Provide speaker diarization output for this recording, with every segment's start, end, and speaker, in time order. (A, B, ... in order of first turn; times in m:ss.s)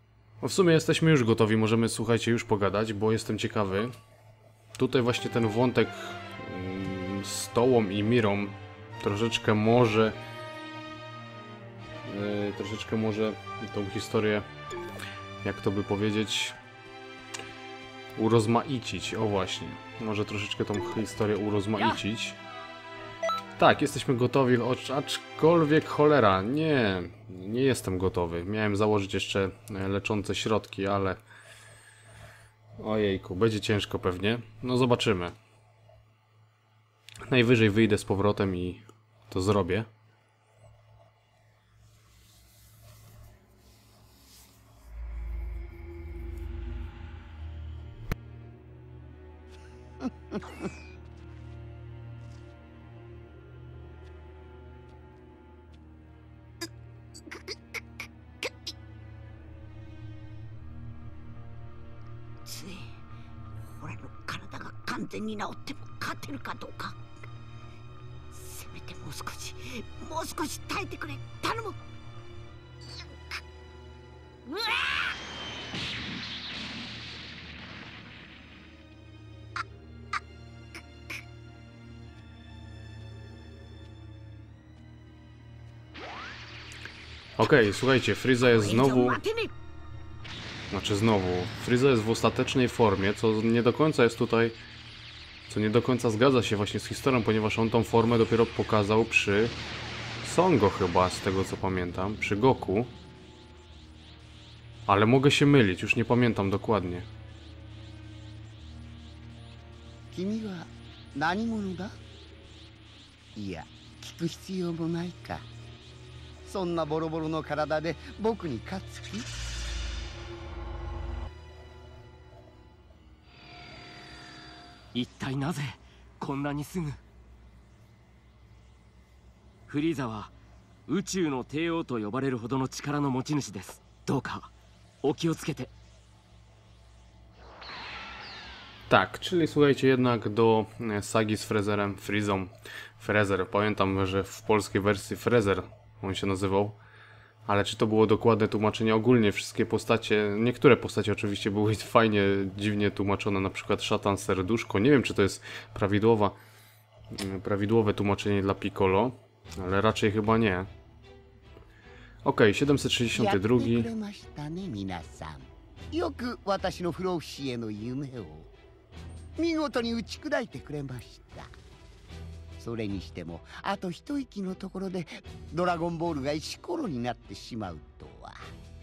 0:00.4-0:03.9 A
0:04.8-0:10.2 A
0:12.0-0:14.4 A
0:15.4-0:16.6 A
0:18.2-0:22.4 A
0:23.6-0:31.2 A
0:32.8-0:35.3 A
0:37.3-0:39.9 A
1:02.4-1:02.9 B
1:03.7-1:07.0 B
1:08.3-1:11.8 B
1:14.4-1:15.2 B
1:27.4-1:29.2 A
1:28.4-1:29.5 B
1:30.7-1:34.6 A
1:35.5-1:39.5 A
1:40.2-1:42.9 A
1:44.9-1:47.1 A
1:50.1-1:52.0 C
1:53.3-1:55.4 C
1:56.4-1:59.3 C
2:04.9-2:07.0 D
2:09.7-2:10.3 D
2:10.9-2:14.5 D
2:15.0-2:15.7 D
2:18.9-2:26.8 A
2:27.5-2:36.4 A
2:37.1-2:40.7 A
2:42.2-2:43.9 A
2:43.1-2:48.5 C
2:49.4-2:51.5 C
2:52.6-2:58.4 C